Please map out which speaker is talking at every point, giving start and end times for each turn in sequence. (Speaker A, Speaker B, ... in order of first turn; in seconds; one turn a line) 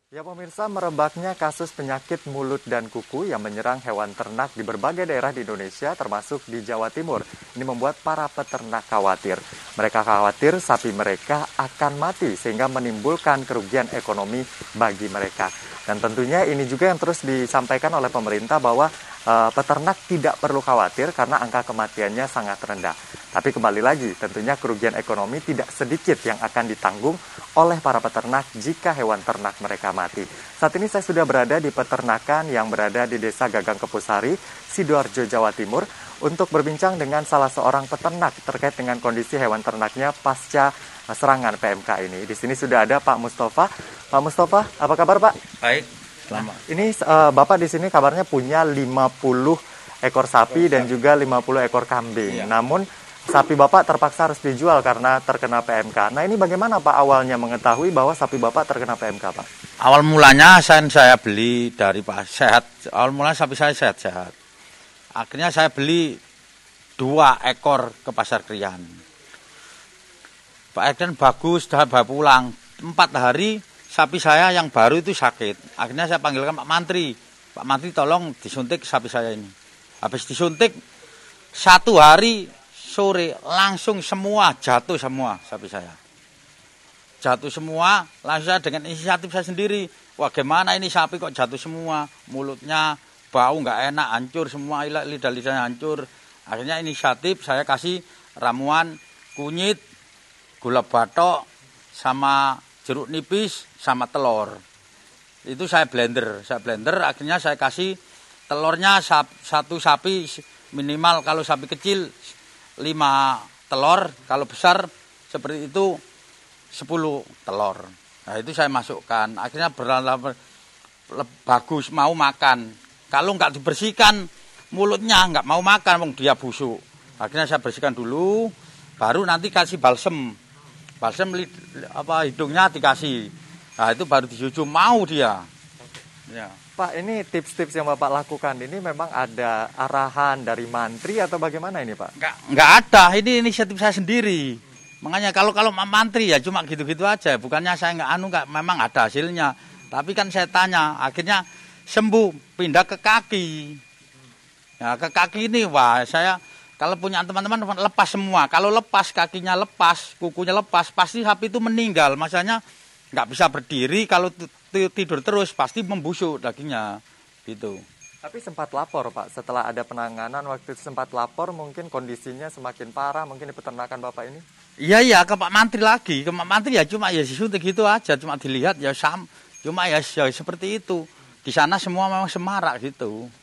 Speaker A: 0.1-45.4
Speaker B: 45.6-46.6
Speaker A: 46.5-59.5
Speaker B: 50.5-50.9
Speaker B: 59.8-64.3
Speaker B: 65.2-66.2
Speaker B: 67.0-69.0
Speaker B: 70.8-80.8
Speaker B: 81.5-86.0
Speaker B: 87.2-99.8
Speaker B: 100.6-104.6
Speaker B: 105.5-108.0
Speaker B: 108.5-116.0
Speaker B: 116.7-120.4
Speaker B: 121.1-130.4
Speaker B: 131.0-135.5
Speaker B: 136.3-136.6
Speaker A: 136.8-142.1
Speaker B: 142.2-153.8
Speaker B: 154.8-162.6
Speaker B: 163.1-167.8
Speaker A: 168.2-174.4
Speaker B: 174.8-183.3